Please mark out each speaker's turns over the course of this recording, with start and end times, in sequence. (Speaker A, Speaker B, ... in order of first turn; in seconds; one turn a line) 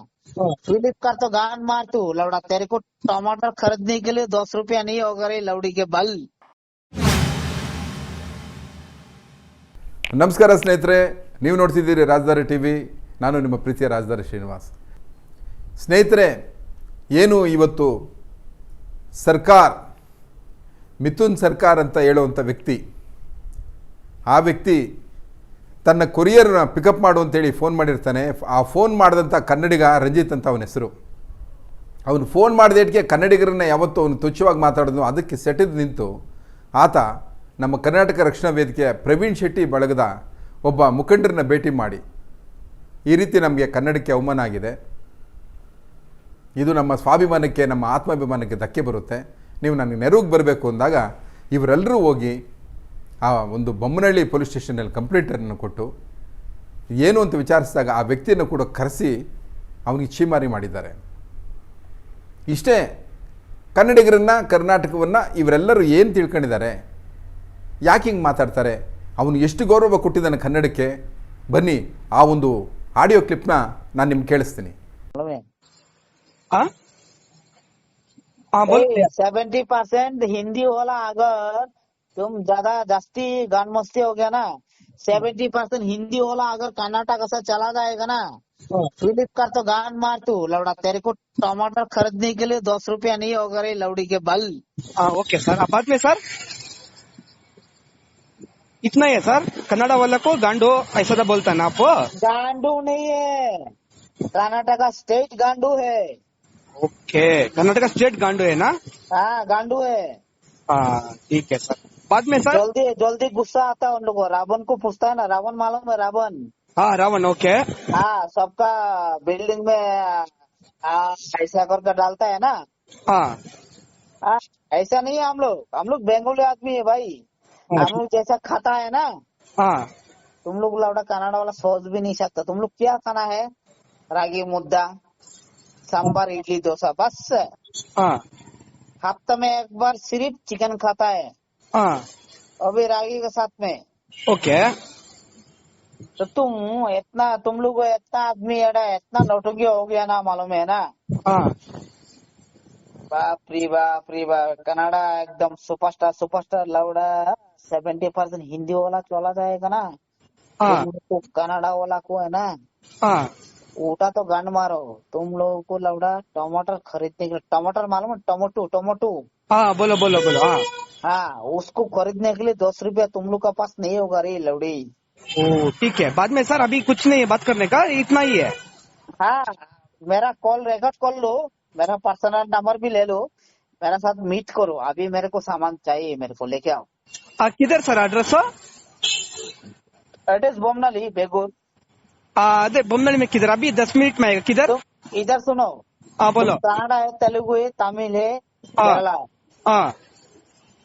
Speaker A: 0.7-6.2
Speaker B: 10.2-14.7
Speaker B: 15.8-16.3
Speaker B: 17.2-17.9
Speaker B: 19.2-19.8
Speaker B: 21.0-22.8
Speaker B: 24.3-24.8
Speaker B: 25.9-30.9
Speaker B: 32.1-36.1
Speaker B: 36.8-37.0
Speaker B: 37.6-40.1
Speaker B: 40.7-42.0
Speaker B: 43.1-44.7
Speaker B: 46.6-52.4
Speaker B: 53.2-55.9
Speaker B: 57.0-59.1
Speaker B: 59.9-61.0
Speaker B: 62.5-62.8
Speaker B: 63.8-66.7
Speaker B: 67.9-70.9
Speaker B: 71.5-74.8
Speaker A: 75.2-75.4
Speaker C: 78.6-79.1
Speaker A: 78.7-81.7
Speaker A: 82.2-84.4
Speaker A: 85.0-88.2
Speaker A: 89.0-94.5
Speaker C: 95.0-96.2
Speaker C: 98.8-101.9
Speaker A: 102.2-103.2
Speaker A: 104.3-106.0
Speaker C: 106.8-108.7
Speaker A: 109.1-110.0
Speaker C: 110.7-112.6
Speaker A: 112.5-116.4
Speaker C: 116.8-117.5
Speaker A: 117.9-118.7
Speaker A: 119.2-120.2
Speaker A: 120.9-122.5
Speaker A: 124.3-127.1
Speaker A: 127.8-129.0
Speaker A: 130.4-133.4
Speaker A: 134.2-134.8
Speaker A: 135.9-137.3
Speaker A: 139.0-141.3
Speaker A: 142.7-143.8
Speaker C: 144.3-144.6
Speaker A: 146.2-150.8
Speaker A: 153.1-157.0
Speaker A: 157.6-159.8
Speaker A: 160.7-162.4
Speaker A: 163.8-169.1
Speaker C: 169.5-170.6
Speaker A: 171.1-174.8
Speaker C: 175.4-178.5
Speaker A: 179.2-179.6
Speaker A: 180.1-183.2
Speaker A: 183.8-186.9
Speaker C: 187.4-188.4
Speaker A: 190.3-191.5
Speaker C: 192.4-194.7
Speaker A: 194.7-195.7
Speaker C: 196.2-196.6
Speaker A: 196.4-198.3
Speaker A: 198.8-199.2